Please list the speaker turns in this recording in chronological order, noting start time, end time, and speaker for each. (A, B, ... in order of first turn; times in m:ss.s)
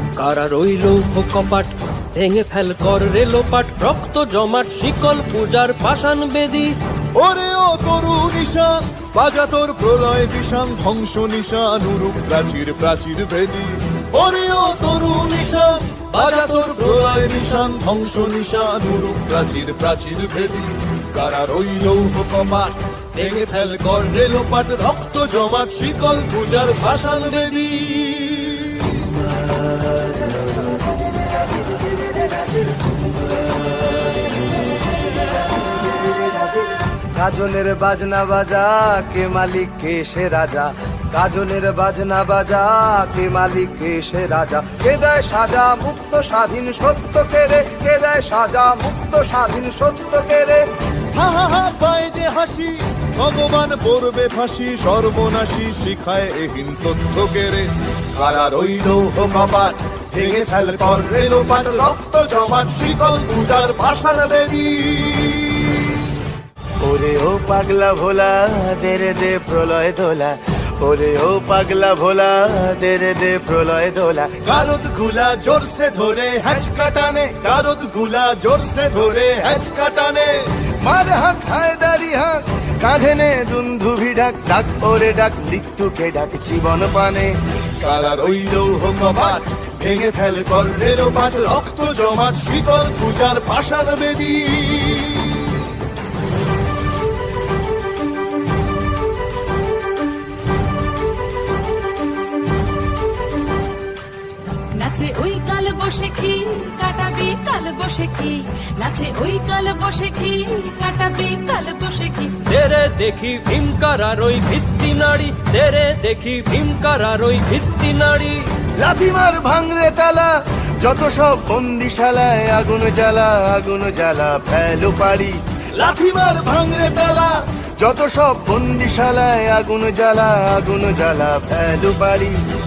0:00.2-0:06.8 A
0:07.1-0:29.5 B
0:16.3-0:16.8 A
0:31.5-0:34.4 C
0:36.2-0:50.6 C
0:51.1-1:06.1 B
1:06.8-1:14.5 C
1:14.5-1:16.6 B
1:16.6-1:17.7 C
1:17.7-1:18.8 B
1:18.4-1:19.7 C
1:19.6-1:20.3 B
1:20.8-1:27.3 C
1:27.8-1:35.7 B
1:44.7-1:52.4 D
1:52.4-1:58.5 A
1:58.8-2:12.4 C